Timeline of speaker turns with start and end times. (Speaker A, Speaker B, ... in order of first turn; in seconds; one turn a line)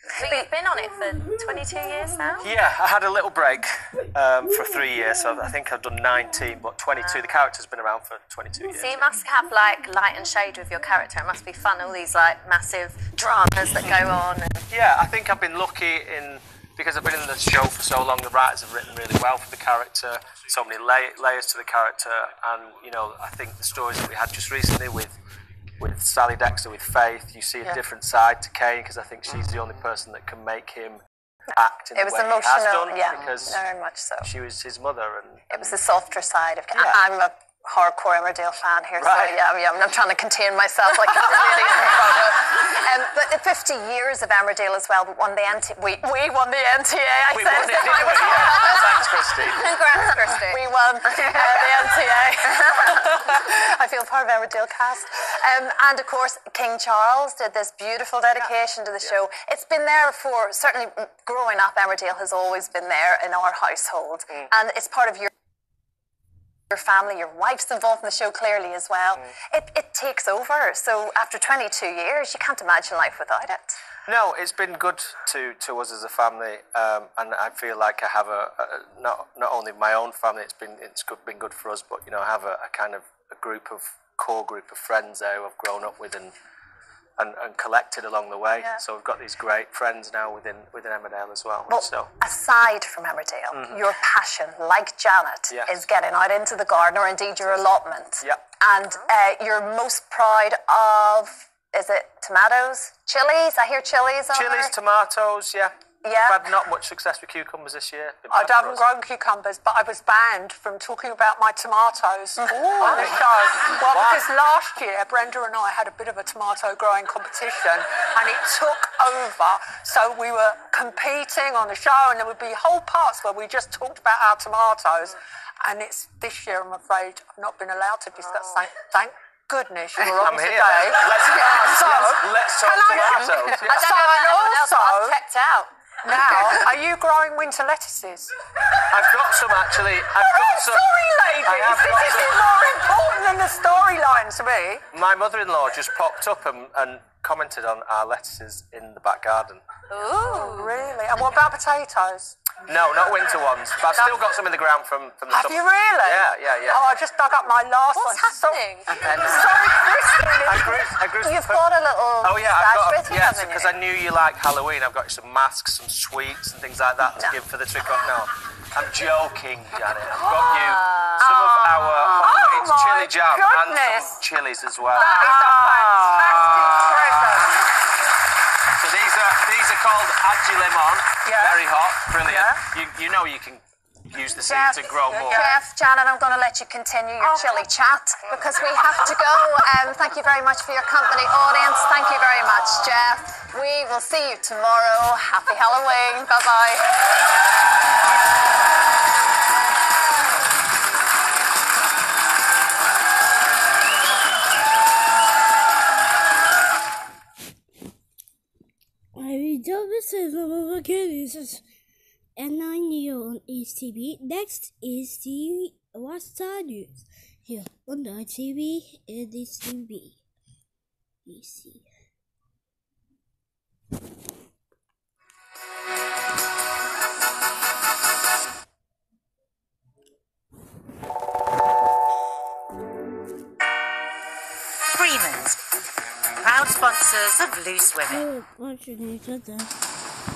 Speaker A: 0.2-2.5
Speaker B: 0.2-0.5
Speaker C: 2.4-9.1
Speaker A: 7.0-7.3
Speaker A: 8.7-14.7
Speaker C: 14.7-25.1
Speaker C: 25.8-31.0
Speaker C: 31.5-33.6
Speaker B: 31.9-34.3
Speaker C: 34.2-35.7
Speaker B: 35.5-49.3
Speaker C: 39.0-39.3
Speaker C: 47.3-49.9
Speaker A: 48.2-51.6
Speaker B: 50.4-65.3
Speaker B: 66.7-73.8
Speaker C: 74.1-86.3
Speaker C: 87.2-92.1
Speaker B: 91.7-104.7
Speaker C: 93.5-93.8
Speaker C: 95.5-95.8
Speaker C: 104.3-108.8
Speaker B: 106.0-106.4
Speaker D: 108.3-135.2
Speaker B: 112.6-113.0
Speaker C: 112.8-113.2
Speaker C: 113.8-114.2
Speaker C: 130.0-133.9
Speaker A: 134.0-135.5
Speaker D: 136.0-138.3
Speaker C: 138.9-140.8
Speaker D: 140.1-144.8
Speaker C: 141.4-142.4
Speaker C: 144.9-149.6
Speaker A: 149.9-150.5
Speaker D: 150.0-152.4
Speaker C: 152.7-156.8
Speaker D: 155.3-160.8
Speaker A: 157.9-158.9
Speaker C: 158.9-159.5
Speaker C: 160.4-161.6
Speaker B: 161.2-163.8
Speaker C: 162.2-177.5
Speaker D: 171.2-174.2
Speaker D: 174.9-177.6
Speaker C: 178.8-185.5
Speaker D: 181.2-181.7
Speaker D: 182.2-182.6
Speaker B: 184.4-196.8
Speaker D: 185.0-185.6
Speaker D: 187.2-187.7
Speaker E: 209.2-211.6
Speaker E: 212.3-220.2
Speaker E: 221.2-221.9
Speaker F: 234.9-235.6
Speaker F: 236.4-238.3
Speaker E: 238.1-239.7